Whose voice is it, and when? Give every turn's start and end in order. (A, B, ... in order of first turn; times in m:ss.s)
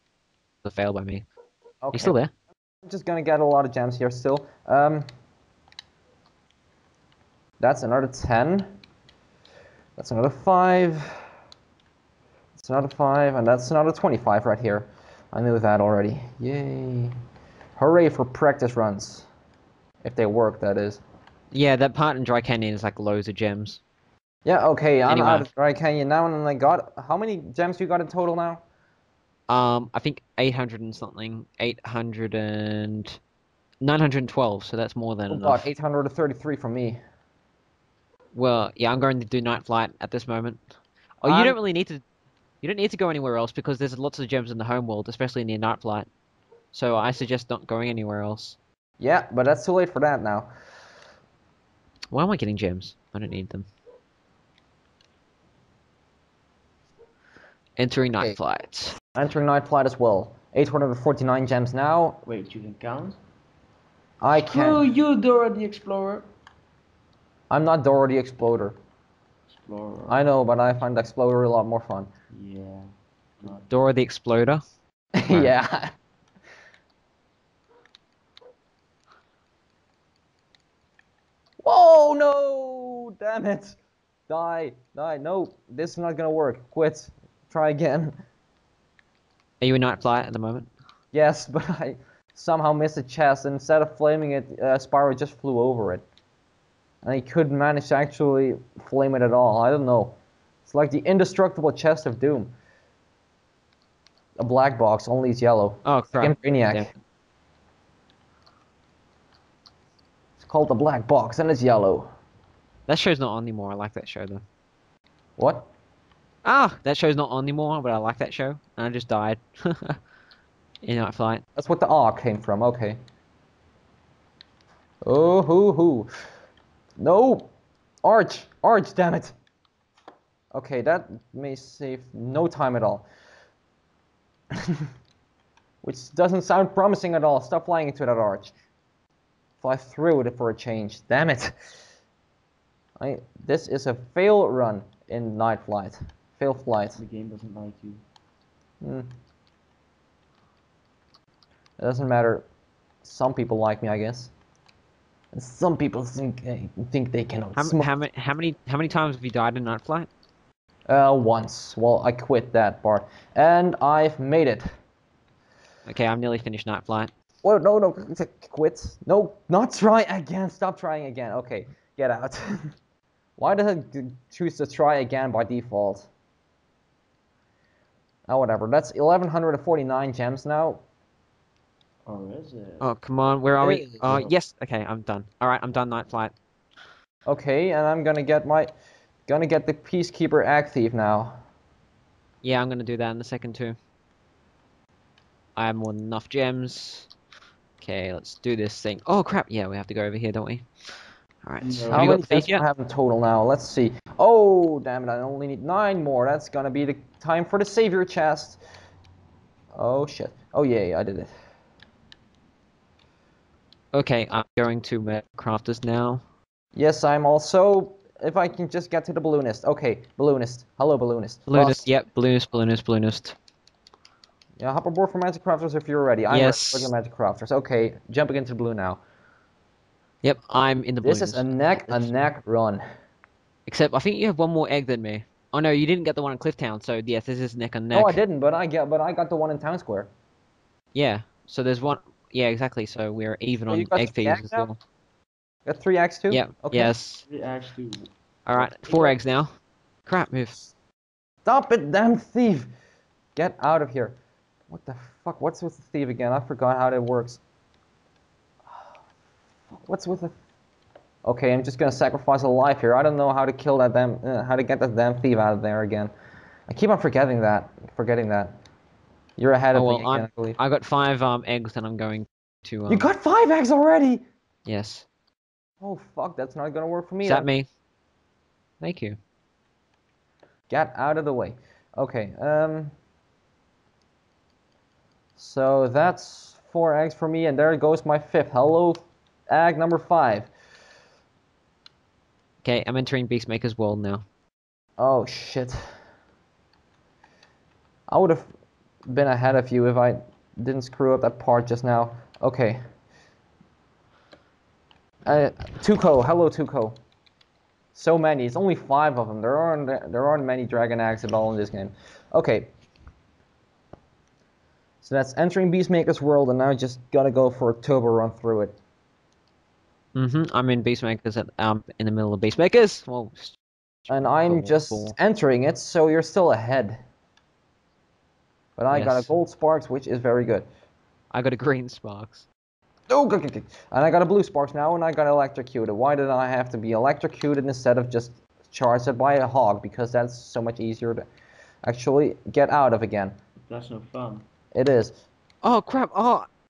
0:00.6-0:01.2 A
0:01.8-0:02.2 B
0:01.9-0:02.3 A
0:02.8-0:05.0 B
0:07.6-0:08.7 B
0:10.0-0:11.2 B
0:12.5-0:17.1 B
0:17.8-0:19.3 B
0:20.0-0:21.0 B
0:21.5-0:23.8 A
0:24.4-0:28.6 B
0:25.1-0:25.5 A
0:29.5-0:33.2 A
0:33.8-0:35.6 A
0:35.3-0:37.0 B
0:38.3-0:40.6 A
0:41.2-0:42.0 A
0:41.2-0:41.6 B
0:42.6-0:46.1 A
0:46.7-0:48.6 A
0:49.0-0:50.5 B
0:52.1-0:53.7 A
0:57.8-0:59.0 A
0:59.2-1:02.2 B
1:02.2-1:03.2 C
1:04.2-1:04.8 B
1:04.3-1:06.3 C
1:07.5-1:08.8 B
1:09.5-1:10.2 C
1:10.1-1:12.1 B
1:12.3-1:12.9 C
1:13.7-1:14.6 A
1:15.2-1:15.9 B
1:21.6-1:23.8 B
1:24.3-1:28.1 B
1:29.6-1:30.7 A
1:31.1-1:36.0 B
1:37.0-1:42.5 B
1:44.4-1:46.9 B
1:45.8-1:46.9 A
1:50.4-1:52.1 B
1:52.9-1:54.4 A
1:55.4-1:55.7 B
1:56.4-2:00.0 A
2:00.8-2:01.4 A
2:01.6-2:03.0 B
2:05.0-2:06.1 B
2:07.0-2:07.5 B
2:08.0-2:09.3 B
2:10.5-2:13.0 B
2:15.8-2:18.5 B
2:19.6-2:21.5 B
2:23.0-2:27.0 B
2:27.0-2:28.0 C
2:31.8-2:32.4 B
2:33.0-2:34.3 B
2:35.3-2:37.9 B
2:37.5-2:40.1 A
2:40.9-2:44.6 B
2:45.8-2:47.1 A
2:47.4-2:52.6 B
2:53.4-2:56.1 B
2:58.3-3:00.8 B
3:02.0-3:02.9 C
3:02.8-3:06.3 A
3:03.6-3:04.3 B
3:07.2-3:08.7 B
3:09.3-3:11.4 B
3:12.4-3:13.8 A
3:15.6-3:17.1 A
3:17.8-3:20.6 A
3:21.4-3:22.6 A
3:21.6-3:22.1 C
3:21.9-3:28.6 B
3:29.7-3:31.3 B
3:33.9-3:36.2 A
3:36.7-3:41.9 B
3:41.5-3:43.4 A
3:44.6-3:49.0 B
3:46.3-3:46.9 A
3:50.2-3:52.2 A
3:51.0-3:52.8 B
3:53.7-3:58.2 A
3:57.9-4:00.1 B
4:00.9-4:04.8 A
4:03.7-4:04.7 B
4:05.6-4:06.9 B
4:06.3-4:07.2 A
4:07.2-4:09.2 C
4:08.4-4:09.5 A
4:10.1-4:10.7 A
4:11.4-4:12.7 B
4:13.4-4:14.2 B
4:14.7-4:17.4 B
4:19.7-4:20.3 B
4:21.2-4:26.1 B
4:26.7-4:28.5 B
4:29.4-4:30.6 B
4:29.7-4:33.1 A
4:32.9-4:34.2 B
4:34.6-4:35.1 A
4:35.8-4:37.5 B
4:37.2-4:37.7 A
4:38.8-4:39.2 A
4:40.7-4:42.9 B
4:45.4-4:50.5 B
4:52.6-4:54.2 A
4:55.0-4:55.8 B
4:58.1-4:58.5 B
4:59.1-5:02.8 B
5:05.2-5:07.0 B
5:07.9-5:12.7 B
5:15.0-5:18.8 B
5:20.1-5:25.1 A
5:24.1-5:27.0 B
5:28.8-5:30.6 B
5:28.9-5:29.3 A
5:31.3-5:32.5 A
5:33.1-5:41.2 B
5:41.8-5:43.3 B
5:43.7-5:44.4 C
5:44.7-5:45.1 B
5:45.6-5:46.5 A